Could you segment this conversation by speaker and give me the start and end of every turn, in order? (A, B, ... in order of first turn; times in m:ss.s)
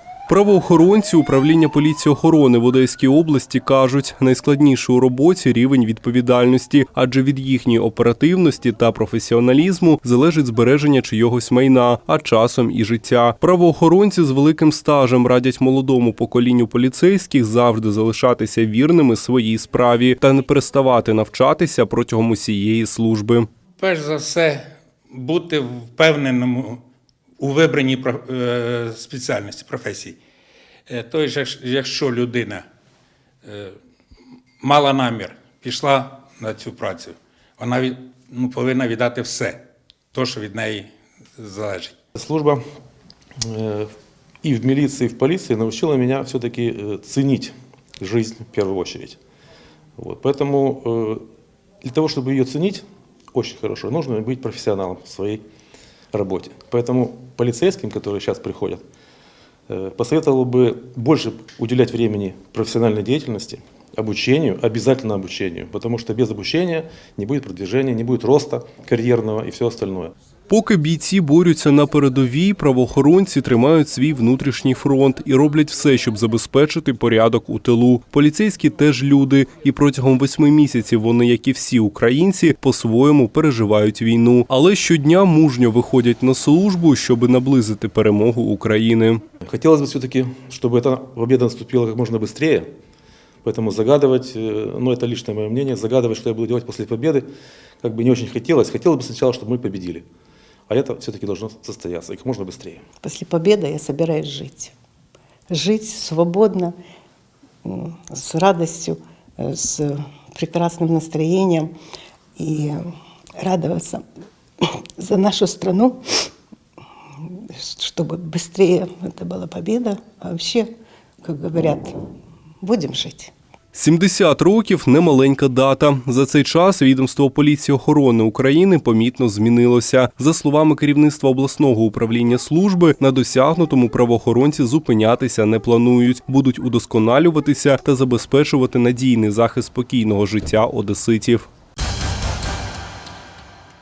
0:00.3-0:23.5 A
0:23.8-0:26.8 B
0:27.4-0:30.2 B
0:30.9-0:32.6 B
0:33.4-0:33.8 B
0:34.6-0:42.0 B
0:42.1-0:42.6 C
0:43.4-0:49.2 C
0:50.0-0:51.2 C
0:51.8-0:55.4 C
0:56.1-0:58.8 C
0:59.7-1:10.1 C
1:10.5-1:29.2 A
1:29.4-1:32.7 C
1:33.4-1:37.3 C
1:37.8-1:40.0 C
1:40.7-1:42.8 C
1:43.0-1:44.7 D
1:45.5-1:46.8 D
1:47.6-1:51.7 D
1:52.4-1:52.9 D
1:53.4-1:54.0 D
1:54.6-1:56.0 D
1:57.6-2:00.7 D
2:01.2-2:01.9 D
2:02.6-2:03.3 D
2:03.7-2:21.5 A